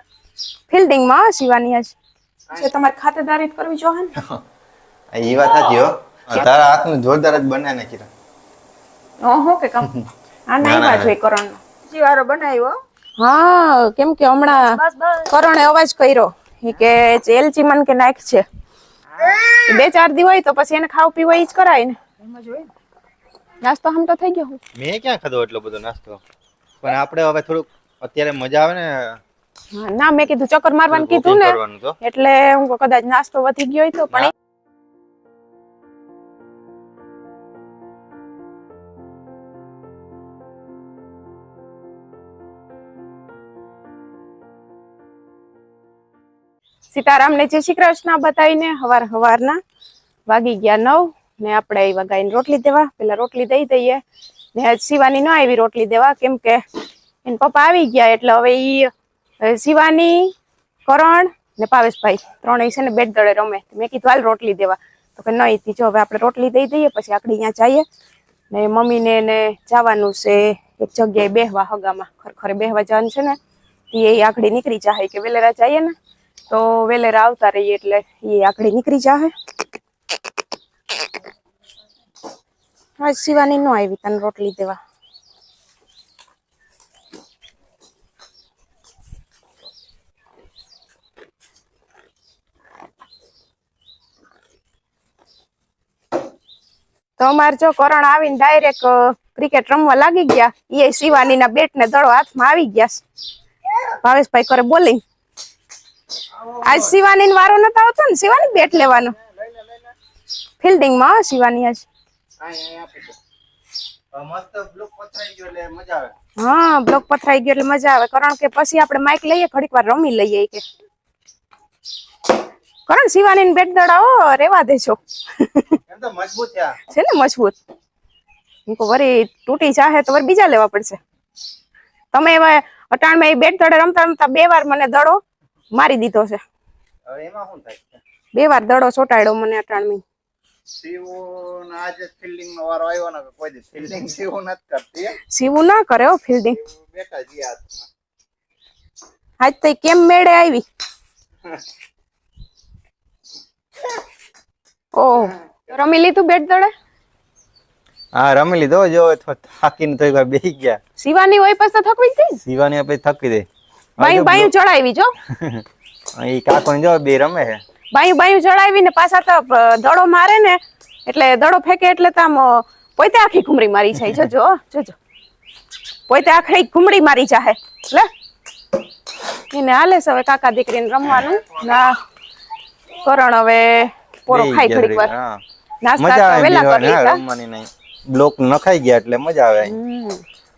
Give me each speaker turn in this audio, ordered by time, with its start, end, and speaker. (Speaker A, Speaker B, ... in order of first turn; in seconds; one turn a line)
Speaker A: 0.7-2.0
Speaker A: 2.5-4.1
Speaker B: 5.1-8.1
Speaker A: 9.2-9.9
Speaker A: 10.5-11.6
Speaker B: 10.6-11.1
Speaker C: 11.9-12.8
Speaker A: 13.2-18.4
Speaker C: 14.6-15.3
Speaker C: 19.1-19.7
Speaker A: 19.6-22.0
Speaker C: 22.2-22.7
Speaker A: 23.6-24.6
Speaker B: 24.8-26.2
Speaker B: 26.8-29.2
Speaker A: 29.7-34.3
Speaker B: 30.9-32.0
Speaker A: 46.9-49.6
Speaker A: 50.3-54.0
Speaker A: 54.5-56.6
Speaker A: 57.2-60.3
Speaker A: 60.9-67.9
Speaker A: 68.5-73.4
Speaker A: 73.9-76.0
Speaker A: 76.5-79.3
Speaker A: 83.0-84.8
Speaker A: 97.2-103.0
Speaker A: 104.0-105.0
Speaker B: 106.4-107.0
Speaker A: 106.6-109.2
Speaker B: 109.3-109.9
Speaker A: 110.6-111.9
Speaker B: 112.4-113.2
Speaker B: 114.1-116.1
Speaker A: 116.4-120.6
Speaker A: 122.9-125.8
Speaker B: 125.9-126.8
Speaker A: 126.9-127.6
Speaker A: 128.7-131.0
Speaker A: 132.1-135.2
Speaker A: 135.7-136.4
Speaker B: 137.1-138.0
Speaker A: 138.3-140.0
Speaker B: 140.7-145.2
Speaker A: 145.2-146.6
Speaker B: 146.5-147.9
Speaker A: 149.4-150.7
Speaker A: 154.9-156.7
Speaker B: 158.2-160.8
Speaker A: 161.0-162.4
Speaker B: 162.4-163.5
Speaker B: 164.0-164.5
Speaker A: 164.0-165.1
Speaker B: 165.3-165.6
Speaker B: 166.2-167.6
Speaker A: 167.9-175.0
Speaker A: 176.1-178.1
Speaker A: 179.5-182.0
Speaker A: 183.0-185.1
Speaker B: 184.3-185.4
Speaker A: 185.8-187.2
Speaker B: 186.0-189.8
Speaker A: 189.6-190.2